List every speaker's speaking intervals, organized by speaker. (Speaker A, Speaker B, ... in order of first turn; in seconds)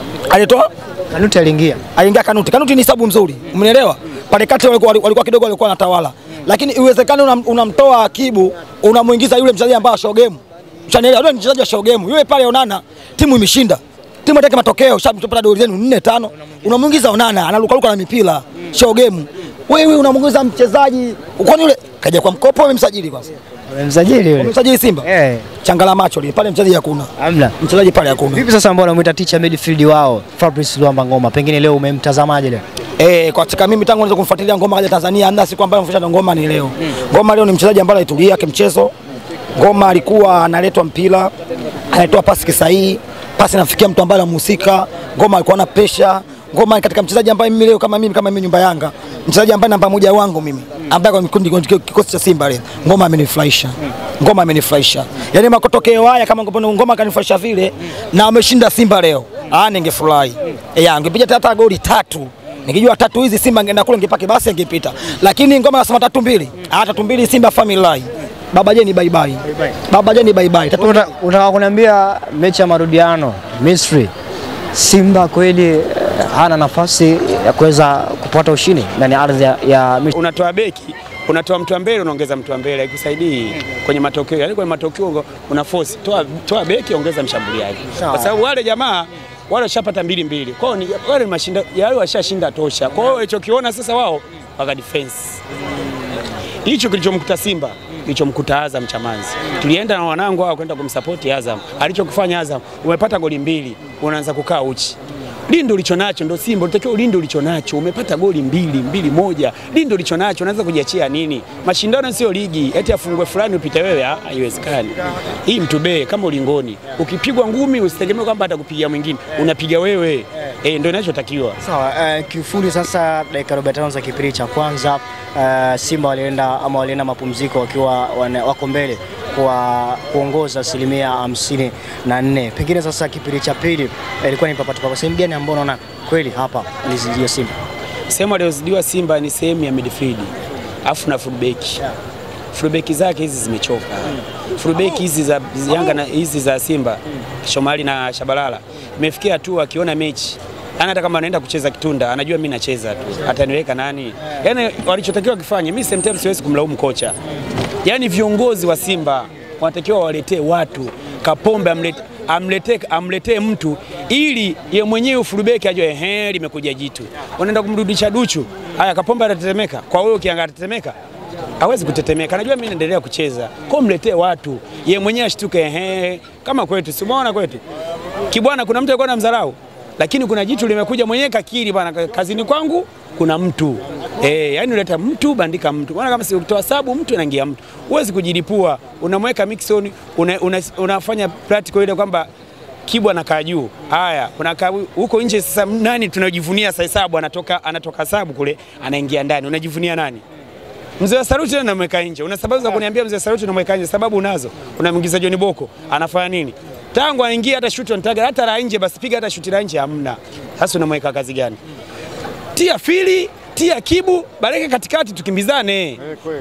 Speaker A: 0.3-0.7, 1.9-23.3, 24.4-25.1, 25.6-28.4, 33.0-38.9, 39.5-41.3, 41.9-71.0
Speaker B: 1.1-1.8, 23.7-25.5, 27.2-27.6, 28.3-32.6, 70.8-74.1, 74.7-80.1, 87.9-88.3, 121.6-137.5
Speaker C: 80.1-95.4, 96.6-105.0, 105.5-121.6, 138.1-140.3, 140.8-141.8, 142.5-157.2, 157.8-170.9, 171.6-177.6, 178.3-192.3, 192.8-200.2, 201.0-211.6, 212.5-216.1